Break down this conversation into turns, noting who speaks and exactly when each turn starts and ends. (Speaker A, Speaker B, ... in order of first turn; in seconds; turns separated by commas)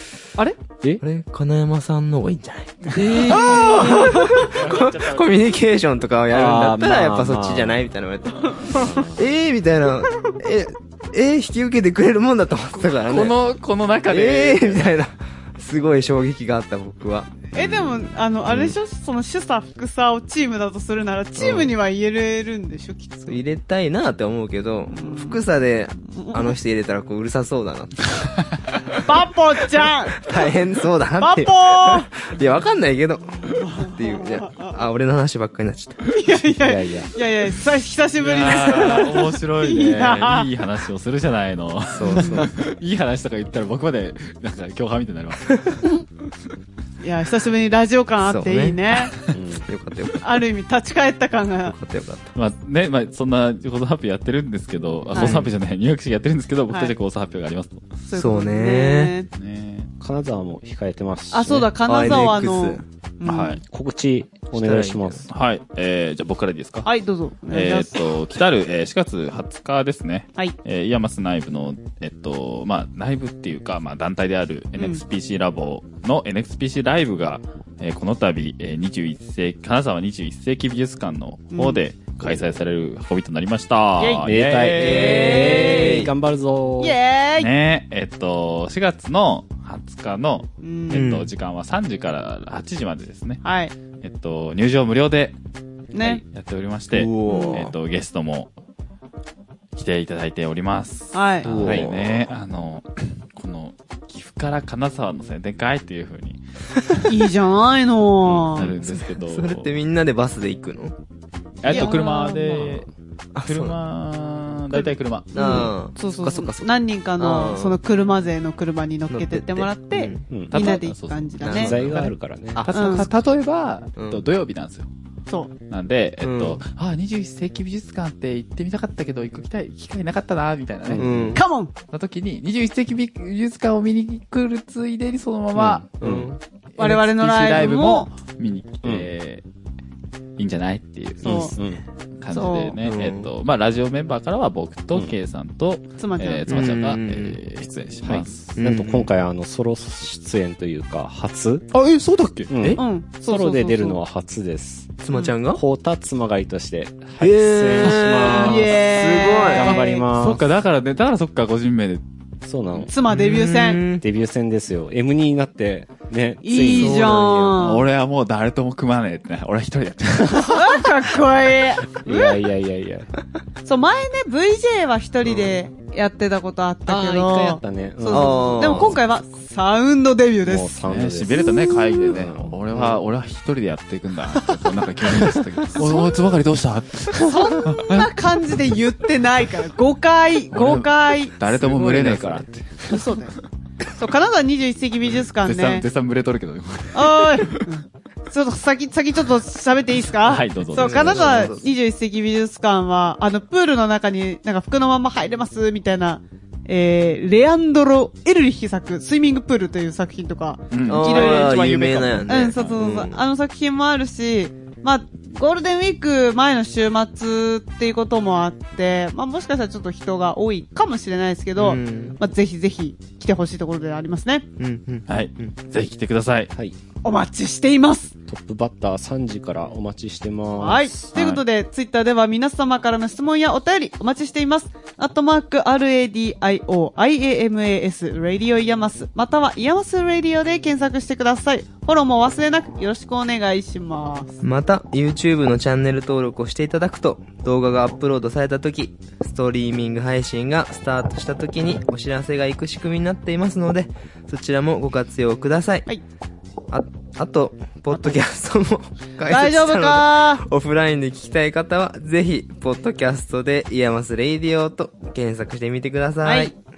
Speaker A: 1.0-13.4, Speaker B: 3.0-5.3, Speaker C: 3.3-4.6, Speaker D: 6.3-7.8, Speaker B: 12.9-14.9, Speaker A: 14.1-18.8, Speaker C: 17.5-23.4, Speaker A: 21.4-21.7, Speaker A: 23.3-28.3, Speaker C: 24.9-25.4, Speaker C: 26.1-26.6, Speaker C: 29.0-30.3, Speaker A: 30.2-36.1, Speaker C: 31.2-32.1, Speaker C: 33.5-34.7, Speaker C: 36.1-40.5, Speaker D: 36.6-37.1, Speaker B: 38.2-45.6, Speaker A: 41.9-42.5, Speaker C: 42.2-42.4, Speaker C: 47.0-49.1, Speaker A: 48.2-50.4, Speaker D: 49.3-49.7, Speaker C: 50.2-51.7, Speaker A: 51.7-52.4, Speaker B: 52.4-57.9, Speaker A: 55.1-55.5, Speaker C: 55.1-55.4, Speaker C: 58.1-59.3, Speaker A: 58.1-59.1, Speaker B: 59.3-59.9, Speaker D: 60.0-61.7, Speaker C: 61.3-63.6, Speaker A: 61.8-62.9, Speaker B: 63.2-63.6, Speaker D: 63.6-65.3, Speaker A: 64.5-65.3, Speaker B: 65.3-66.9, Speaker C: 66.8-68.0, Speaker B: 67.5-85.5, Speaker C: 81.5-81.8, Speaker C: 84.0-84.3, Speaker D: 84.2-87.0, Speaker A: 84.8-86.1, Speaker C: 84.8-86.1, Speaker C: 86.8-87.5, Speaker B: 87.4-93.4, Speaker C: 90.6-91.1, Speaker A: 90.9-91.3, Speaker C: 93.4-93.7, Speaker B: 94.0-95.4, Speaker C: 95.9-96.2, Speaker B: 96.0-98.5, Speaker A: 96.9-97.7, Speaker C: 97.3-97.6, Speaker B: 99.8-106.4, Speaker C: 101.1-101.5, Speaker A: 101.4-102.2, Speaker C: 107.0-108.7, Speaker B: 108.2-109.7, Speaker A: 108.6-111.0, Speaker B: 111.6-112.9, Speaker C: 111.7-112.7, Speaker A: 113.3-113.8, Speaker B: 113.5-115.8, Speaker A: 115.3-117.8, Speaker C: 115.3-122.0, Speaker A: 119.1-120.7, Speaker B: 120.5-124.9, Speaker A: 121.4-121.8, Speaker D: 121.5-122.7, Speaker A: 122.5-122.8, Speaker C: 122.7-123.1, Speaker A: 124.0-124.2, Speaker B: 125.7-131.3, Speaker A: 126.2-126.6, Speaker D: 130.9-131.4, Speaker A: 131.0-131.4, Speaker C: 131.3-131.7, Speaker B: 131.9-135.9, Speaker D: 135.6-136.3, Speaker A: 136.0-136.4, Speaker B: 136.8-139.4, Speaker C: 136.8-138.1, Speaker B: 140.4-141.6, Speaker D: 141.2-141.8, Speaker C: 141.2-141.5, Speaker B: 142.2-148.6, Speaker C: 142.3-142.8, Speaker A: 142.8-143.3, Speaker C: 146.0-146.7, Speaker A: 146.5-147.4, Speaker D: 148.0-151.7, Speaker A: 148.6-149.1, Speaker B: 151.7-152.5, Speaker D: 152.5-160.5, Speaker C: 152.8-154.0, Speaker A: 155.0-155.6, Speaker A: 157.2-159.8, Speaker B: 157.8-158.7, Speaker C: 158.2-160.0, Speaker B: 160.2-162.0, Speaker D: 162.4-162.9, Speaker C: 162.9-163.8, Speaker A: 163.1-164.1, Speaker D: 164.0-167.2, Speaker C: 166.4-167.8, Speaker A: 166.8-167.6, Speaker B: 167.6-170.7, Speaker C: 170.4-172.2, Speaker D: 172.0-173.1, Speaker C: 173.7-180.7, Speaker D: 176.9-178.9, Speaker A: 178.1-179.0, Speaker D: 180.4-181.5, Speaker B: 180.8-188.1, Speaker C: 181.4-182.1, Speaker D: 182.1-183.0, Speaker D: 185.2-186.0, Speaker C: 187.2-191.4, Speaker B: 190.5-193.1, Speaker D: 191.6-192.5, Speaker C: 192.9-193.4, Speaker C: 194.0-195.9, Speaker B: 195.3-197.7, Speaker C: 196.9-211.7, Speaker B: 200.2-201.5, Speaker A: 200.7-201.7, Speaker B: 210.7-212.8, Speaker A: 210.9-213.2, Speaker C: 212.3-224.5, Speaker A: 221.6-222.2, Speaker A: 224.6-225.6, Speaker B: 225.1-226.5, Speaker C: 227.0-228.2, Speaker D: 228.3-231.1, Speaker C: 230.6-244.4, Speaker B: 231.2-231.4, Speaker A: 244.4-255.9, Speaker A: 256.7-266.6, Speaker C: 257.9-258.2, Speaker C: 259.3-260.4, Speaker C: 266.2-266.5